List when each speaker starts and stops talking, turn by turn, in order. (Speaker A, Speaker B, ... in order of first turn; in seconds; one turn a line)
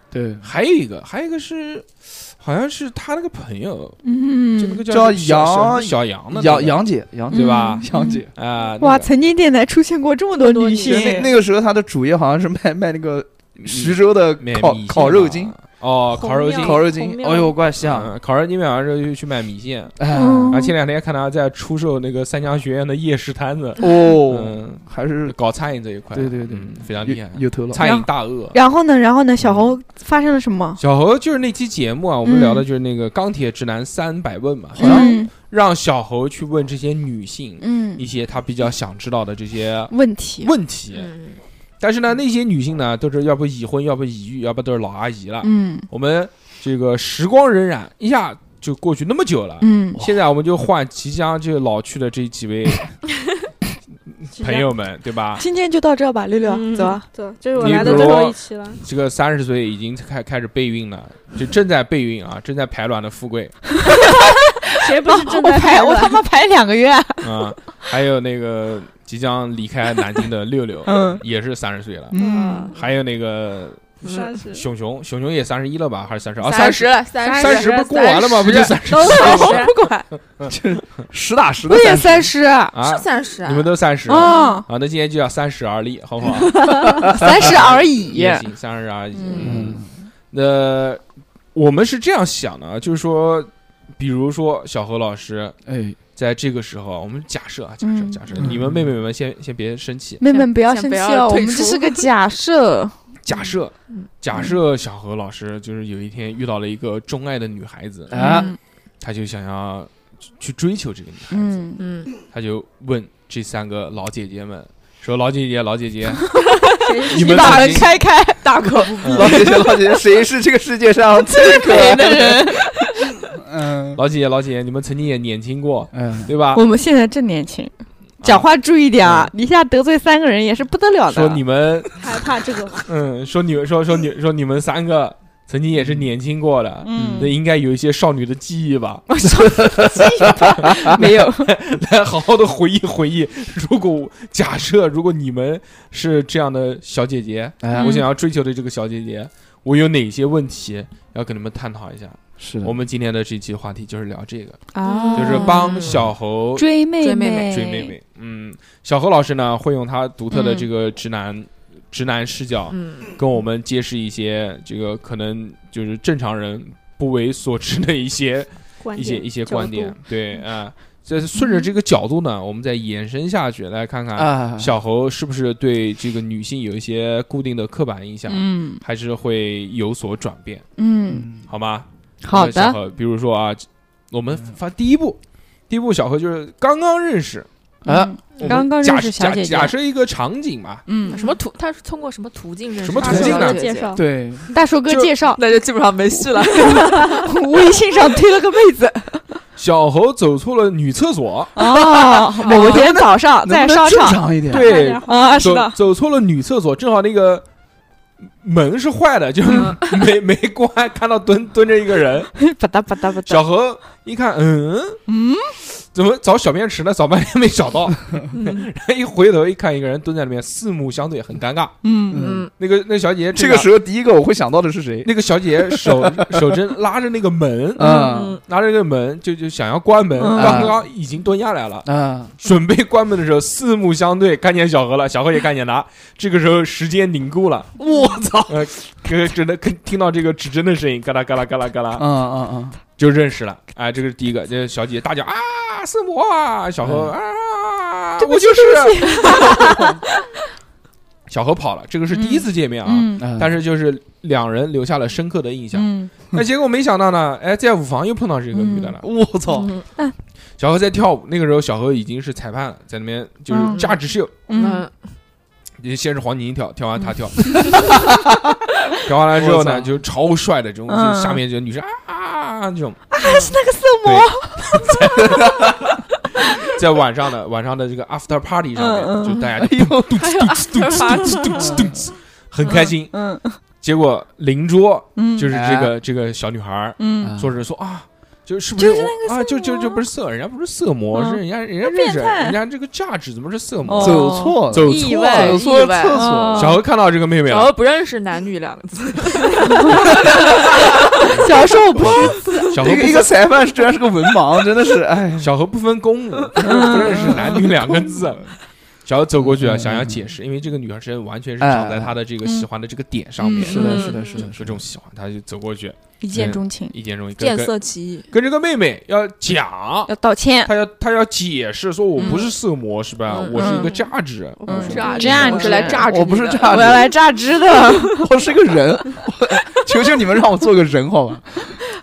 Speaker A: 0.1-0.5
Speaker B: 0.4-4.0
Speaker C: 4.0-4.8
Speaker B: 4.5-9.1
Speaker A: 4.9-8.3
Speaker C: 7.3-8.2
Speaker C: 8.8-11.3
Speaker D: 10.4-11.2
Speaker A: 10.8-15.6
Speaker B: 13.6-16.9
Speaker D: 16.1-17.6
Speaker A: 16.6-18.1
Speaker B: 17.8-20.0
Speaker A: 20.0-20.6
Speaker C: 20.1-20.7
Speaker B: 20.5-28.6
Speaker A: 23.8-25.4
Speaker A: 26.1-27.8
Speaker C: 27.8-30.8
Speaker B: 29.4-29.7
Speaker B: 30.8-41.1
Speaker C: 32.2-32.6
Speaker A: 34.8-35.2
Speaker C: 34.8-35.3
Speaker C: 37.6-38.0
Speaker C: 39.9-40.5
Speaker E: 40.9-41.4
Speaker B: 41.8-53.0
Speaker C: 45.4-45.9
Speaker C: 49.6-50.0
Speaker B: 54.2-55.4
Speaker D: 54.4-54.7
Speaker C: 55.4-57.0
Speaker D: 56.5-58.8
Speaker B: 57.6-63.6
Speaker A: 57.6-58.1
Speaker C: 63.9-67.5
Speaker D: 64.8-66.2
Speaker B: 67.2-72.2
Speaker C: 70.9-71.2
Speaker C: 72.1-72.7
Speaker D: 72.2-72.8
Speaker B: 72.7-79.6
Speaker E: 74.0-74.4
Speaker D: 74.0-74.7
Speaker E: 76.4-80.0
Speaker D: 77.2-77.7
Speaker D: 78.9-79.8
Speaker A: 80.5-82.3
Speaker C: 81.7-82.8
Speaker B: 82.7-91.0
Speaker E: 82.8-83.8
Speaker C: 84.1-84.7
Speaker D: 84.2-84.6
Speaker D: 86.6-86.9
Speaker C: 87.0-88.5
Speaker A: 87.1-87.5
Speaker C: 89.1-89.5
Speaker A: 89.4-89.9
Speaker B: 91.5-95.6
Speaker A: 95.7-96.0
Speaker B: 96.2-100.2
Speaker C: 97.8-98.4
Speaker A: 98.3-98.9
Speaker C: 100.2-103.0
Speaker E: 100.3-102.1
Speaker B: 103.2-108.3
Speaker A: 108.1-108.5
Speaker C: 108.2-108.6
Speaker B: 109.0-111.7
Speaker C: 111.3-111.8
Speaker E: 111.8-112.1
Speaker B: 112.2-116.3
Speaker C: 116.8-118.8
Speaker D: 116.8-117.9
Speaker B: 117.1-117.9
Speaker E: 118.4-119.6
Speaker A: 118.6-122.6
Speaker B: 119.0-119.3
Speaker C: 121.4-122.7
Speaker A: 123.3-124.0
Speaker B: 124.0-126.6
Speaker A: 125.9-126.3
Speaker C: 126.5-131.4
Speaker B: 129.0-129.3
Speaker B: 131.1-132.0
Speaker D: 132.0-132.9
Speaker B: 132.9-139.1
Speaker A: 135.7-136.1
Speaker C: 136.8-137.3
Speaker C: 139.1-141.5
Speaker A: 139.4-140.9
Speaker B: 140.8-154.6
Speaker A: 147.6-148.0
Speaker C: 147.8-148.0
Speaker A: 152.4-152.7
Speaker C: 154.7-155.9
Speaker E: 154.8-156.1
Speaker B: 155.2-156.7
Speaker C: 156.6-157.9
Speaker E: 157.0-157.6
Speaker B: 157.5-180.6
Speaker C: 160.3-160.7
Speaker E: 162.7-163.1
Speaker D: 168.8-170.0
Speaker C: 171.4-171.7
Speaker A: 174.1-174.7
Speaker C: 178.3-178.8
Speaker C: 180.8-181.3
Speaker A: 181.1-181.4
Speaker B: 181.5-185.2
Speaker C: 182.2-182.8
Speaker B: 185.7-187.5
Speaker A: 187.8-188.1
Speaker C: 187.8-189.8
Speaker B: 188.4-190.8
Speaker C: 190.9-191.2
Speaker E: 191.1-194.0
Speaker B: 192.8-193.6
Speaker D: 193.0-194.1
Speaker A: 193.1-193.3
Speaker A: 193.9-194.5
Speaker C: 194.5-195.4
Speaker B: 194.9-195.2
Speaker E: 195.4-197.2
Speaker C: 196.5-199.4
Speaker B: 199.6-201.5
Speaker C: 201.6-204.2
Speaker A: 201.6-204.7
Speaker E: 202.4-202.9
Speaker B: 204.5-207.4
Speaker D: 204.5-205.4
Speaker C: 205.0-205.8
Speaker B: 208.4-212.3
Speaker E: 209.5-210.1
Speaker C: 212.4-213.4
Speaker B: 213.3-215.0
Speaker C: 215.1-215.5
Speaker B: 215.8-221.8
Speaker E: 218.3-218.7
Speaker C: 221.8-222.3
Speaker A: 222.1-222.5
Speaker E: 222.1-222.5
Speaker B: 222.6-223.7
Speaker A: 223.3-226.6
Speaker B: 225.0-231.9
Speaker A: 227.8-228.4
Speaker C: 227.8-228.2
Speaker E: 228.1-228.4
Speaker C: 230.2-230.7
Speaker A: 230.3-230.8
Speaker A: 231.8-232.3
Speaker B: 232.4-237.7
Speaker A: 237.8-238.7
Speaker B: 238.5-242.1
Speaker A: 242.0-242.8
Speaker B: 243.0-249.5
Speaker A: 246.8-247.1
Speaker C: 248.2-250.0
Speaker B: 251.3-259.0
Speaker C: 252.1-253.2
Speaker A: 253.2-253.5
Speaker C: 255.7-256.1
Speaker C: 258.5-259.0
Speaker A: 259.0-259.7
Speaker E: 259.6-259.8
Speaker B: 260.6-264.3
Speaker C: 263.5-263.8
Speaker E: 263.6-264.0
Speaker C: 264.5-264.9
Speaker E: 264.5-264.9
Speaker B: 265.8-267.9
Speaker A: 267.8-268.3
Speaker B: 269.0-273.0
Speaker A: 269.3-269.9
Speaker C: 270.9-271.4
Speaker C: 273.1-275.3
Speaker B: 274.0-275.7
Speaker A: 275.2-275.8
Speaker B: 276.6-283.2
Speaker C: 278.8-279.4
Speaker A: 279.6-280.2
Speaker E: 280.1-281.8
Speaker A: 281.6-281.9
Speaker C: 282.6-283.6
Speaker B: 283.8-295.6
Speaker C: 285.2-285.5
Speaker A: 285.5-285.9
Speaker C: 287.0-287.4
Speaker A: 287.2-287.6
Speaker C: 288.8-290.1
Speaker C: 291.1-292.6
Speaker C: 293.9-295.3
Speaker A: 294.0-296.8
Speaker E: 294.9-296.2
Speaker C: 296.1-296.8
Speaker B: 296.6-297.7
Speaker E: 297.5-300.8
Speaker C: 299.7-300.1
Speaker B: 301.3-303.3
Speaker C: 301.3-302.6
Speaker A: 302.7-305.5
Speaker B: 305.4-317.7
Speaker C: 306.6-307.4
Speaker A: 307.1-307.6
Speaker A: 309.4-310.2
Speaker A: 311.6-312.2
Speaker C: 312.4-312.7
Speaker C: 313.4-314.0
Speaker A: 313.6-314.8
Speaker E: 313.7-314.5
Speaker C: 316.2-316.9
Speaker E: 317.4-318.3
Speaker B: 318.3-320.1
Speaker C: 320.1-320.7
Speaker B: 320.6-325.4
Speaker C: 322.2-322.5
Speaker E: 323.3-323.9
Speaker C: 323.5-323.9
Speaker D: 324.6-326.1
Speaker C: 324.6-326.1
Speaker E: 324.7-326.9
Speaker A: 326.0-327.1
Speaker C: 326.6-328.2
Speaker A: 328.0-331.8